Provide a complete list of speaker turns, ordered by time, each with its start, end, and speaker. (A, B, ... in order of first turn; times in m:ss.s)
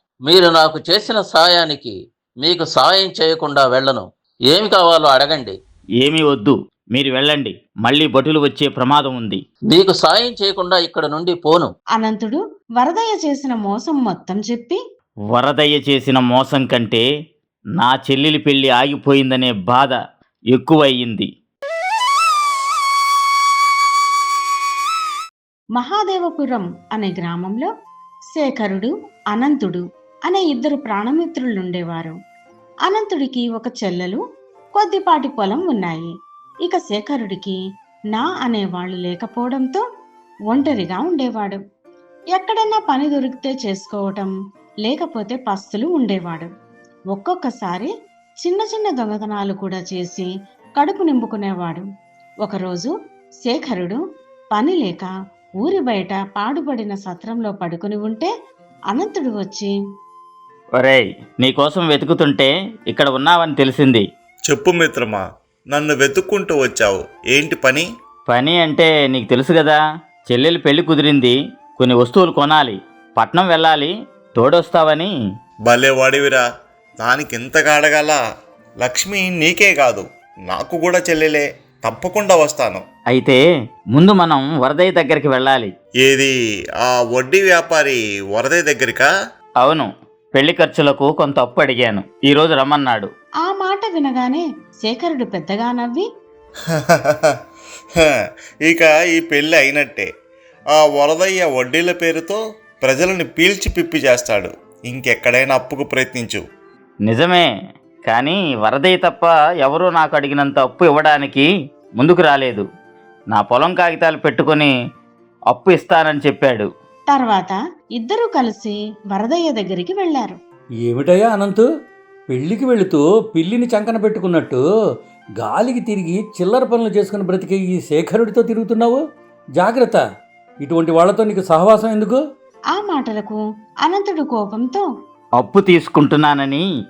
0:00.3-0:05.5 A
0:06.0-0:09.4 B
0:09.7-0:11.7 A
0:11.9-0:14.8 C
0:15.3-0:17.0 B
0:17.8-0:20.0 B
0:20.5-0:21.3 B
0:25.8-0:27.7 C
0:28.3-0:32.2 C
0:32.8-0:34.2 C
0:34.7-0:36.1 C
0:36.6-0:37.6 C
0:38.1-0:39.8 C
0:40.5-0:41.6 C
0:42.3-0:44.3 C
0:44.8-0:46.5 C
0:47.1-0:51.8 C
0:52.4-0:54.0 C
0:54.5-0:58.3 C
0:58.9-0:59.7 C
1:00.8-1:04.0 B
1:04.5-1:07.9 D
1:08.3-1:15.1 B
1:15.7-1:16.4 D
1:17.0-1:18.2 D
1:18.8-1:22.8 D
1:23.1-1:23.4 B
1:23.9-1:25.7 B
1:26.0-1:29.1 D
1:29.6-1:33.1 B
1:33.4-1:36.1 C
1:36.7-1:37.4 D
1:38.6-1:40.1 D
1:40.8-1:46.4 D
1:47.1-1:47.5 B
1:48.0-1:51.5 B
1:52.0-1:52.6 B
1:53.3-1:54.7 B
1:55.5-1:56.7 B
1:57.1-2:00.4 C
2:00.8-2:01.6 E
2:02.3-2:04.6 E
2:05.4-2:09.0 E
2:09.6-2:10.0 E
2:10.6-2:12.2 E
2:12.7-2:14.9 C
2:15.4-2:16.6 B